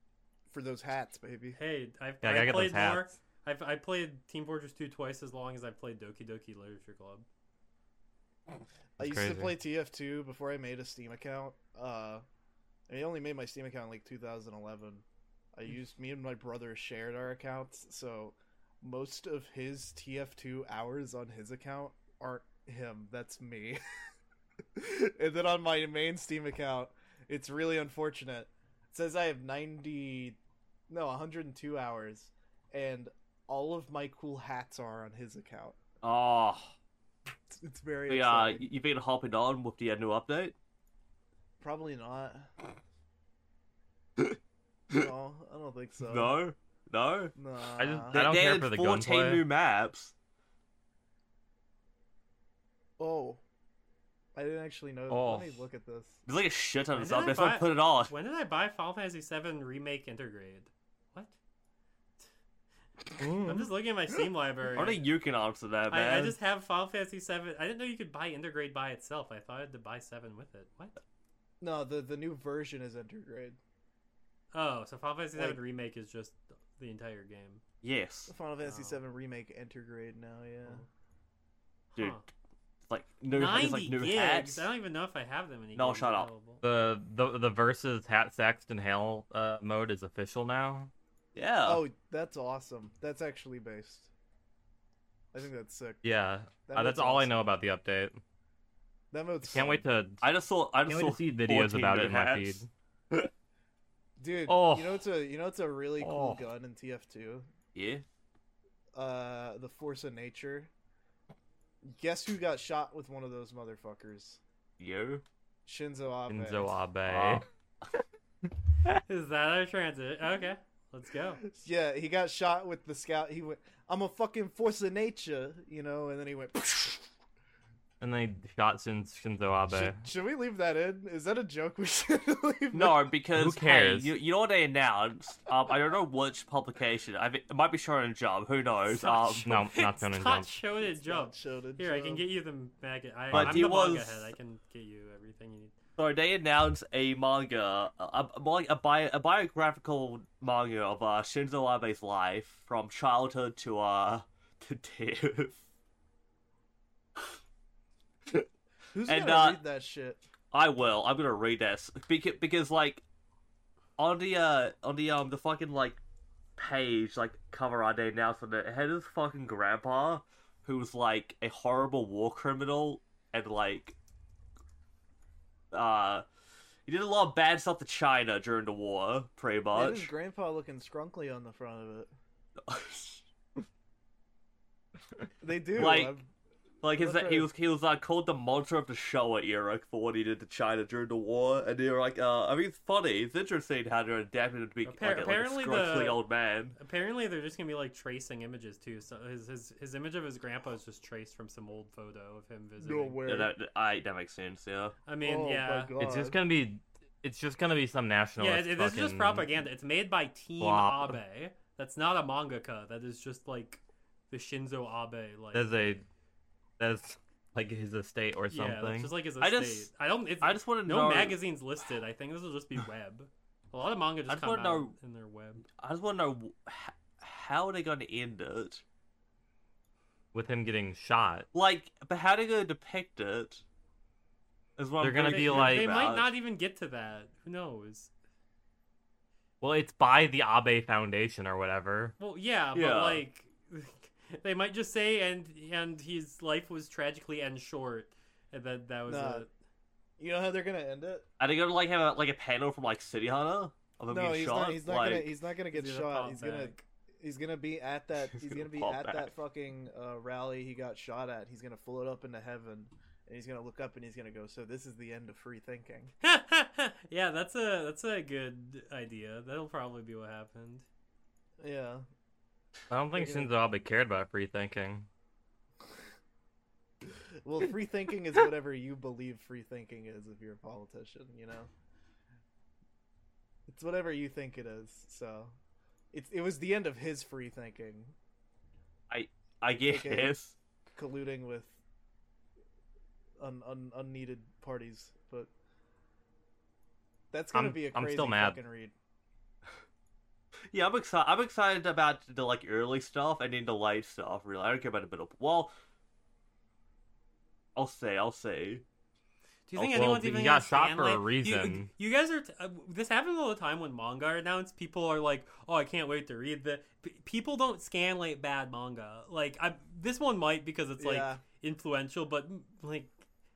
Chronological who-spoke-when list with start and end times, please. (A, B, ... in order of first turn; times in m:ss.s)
0:00.5-0:01.6 A
0:01.6-0:07.3 B
0:02.2-0:03.1 C
0:09.0-0:12.2 A
0:09.0-0:09.5 C
0:12.9-0:15.0 A
0:15.6-0:23.8 A
0:24.8-0:30.4 A
0:30.9-0:35.8 A
0:36.0-0:36.7 D
0:37.5-0:38.6 A
0:38.1-0:40.6 D
0:41.6-0:42.5 A
0:44.9-0:46.3 A
0:46.0-0:47.3 D
0:47.3-0:48.2 A
0:47.8-0:49.4 C
0:48.1-0:50.1 D
0:53.0-0:53.4 A
0:54.3-0:56.2 A
0:55.1-0:55.6 C
0:56.3-0:58.1 D
0:57.0-1:01.3 B
1:03.2-1:03.7 C
1:03.4-1:05.1 B
1:04.7-1:06.4 D
1:05.9-1:11.0 B
1:11.6-1:13.6 A
1:14.5-1:17.6 B
1:17.8-1:18.3 D
1:18.3-1:20.8 A
1:18.6-1:19.0 B
1:22.0-1:22.3 B
1:22.9-1:24.7 D
1:23.3-1:26.6 B
1:25.7-1:26.3 D
1:26.6-1:30.9 C
1:31.3-1:31.8 D
1:31.6-1:34.1 A
1:35.3-1:36.0 A
1:36.0-1:38.2 C
1:36.7-1:37.3 A
1:39.1-1:39.8 A
1:39.4-1:40.2 C
1:40.2-1:42.6 D
1:40.9-1:42.7 C
1:44.2-1:47.5 A
1:44.5-1:45.0 C
1:46.0-1:46.4 C
1:47.7-1:48.0 D
1:49.0-1:50.7 A
1:51.8-1:54.4 A
1:54.8-1:55.2 D
1:55.7-1:56.7 A
1:56.3-1:57.4 C
1:57.0-1:57.4 D
1:59.1-2:01.4 B
2:01.5-2:07.0 A
2:08.0-2:10.0 C
2:09.7-2:13.1 A
2:12.7-2:19.6 D
2:13.3-2:14.1 C
2:18.9-2:25.8 B
2:19.4-2:20.5 C
2:20.8-2:22.2 A
2:23.3-2:23.6 C
2:23.3-2:24.3 D
2:26.0-2:35.6 D
2:38.9-2:40.2 A
2:39.0-2:39.6 D
2:40.5-2:43.0 D
2:44.0-2:46.0 D
2:46.6-2:54.0 D
2:55.7-2:56.2 D
2:56.9-3:00.1 D
2:59.7-3:02.1 A
3:02.6-3:03.2 D
3:05.4-3:06.3 A
3:05.7-3:06.2 D
3:06.8-3:16.8 D
3:07.0-3:07.5 A
3:14.8-3:16.2 B
3:16.8-3:23.2 B
3:22.8-3:23.5 A
3:23.3-3:25.0 D
3:25.0-3:25.9 B
3:25.2-3:26.4 A
3:26.0-3:29.5 C
3:28.4-3:35.9 B
3:30.6-3:31.2 C
3:35.5-3:36.0 C
3:36.8-3:39.1 C
3:38.5-3:45.7 B
3:39.4-3:39.9 D
3:40.4-3:41.4 D
3:44.3-3:44.9 D
3:45.8-3:48.8 D
3:50.3-3:51.5 C
3:51.5-3:53.6 D
3:54.8-3:56.3 D
3:55.0-3:56.0 C
3:55.2-3:58.1 B
3:59.6-4:02.1 C
4:02.2-4:09.5 B
4:02.7-4:03.2 D
4:09.1-4:09.4 A
4:10.2-4:11.2 A
4:11.4-4:15.3 D
4:14.1-4:26.1 A
4:15.7-4:16.8 B
4:18.3-4:19.3 D
4:26.2-4:30.8 B
4:31.6-4:32.0 A
4:32.9-4:35.1 C
4:33.1-4:33.5 A
4:37.4-4:41.7 A
4:43.7-4:45.5 A
4:46.1-4:48.1 A
4:49.1-4:50.6 D
4:49.9-4:50.4 A
4:51.0-4:51.8 A
4:53.4-4:55.5 A
4:57.3-4:58.9 A
4:57.5-4:58.6 C
5:00.7-5:05.7 D
5:07.7-5:08.8 D
5:09.7-5:23.2 B
5:09.8-5:10.0 D
5:09.8-5:11.9 C
5:21.0-5:21.4 A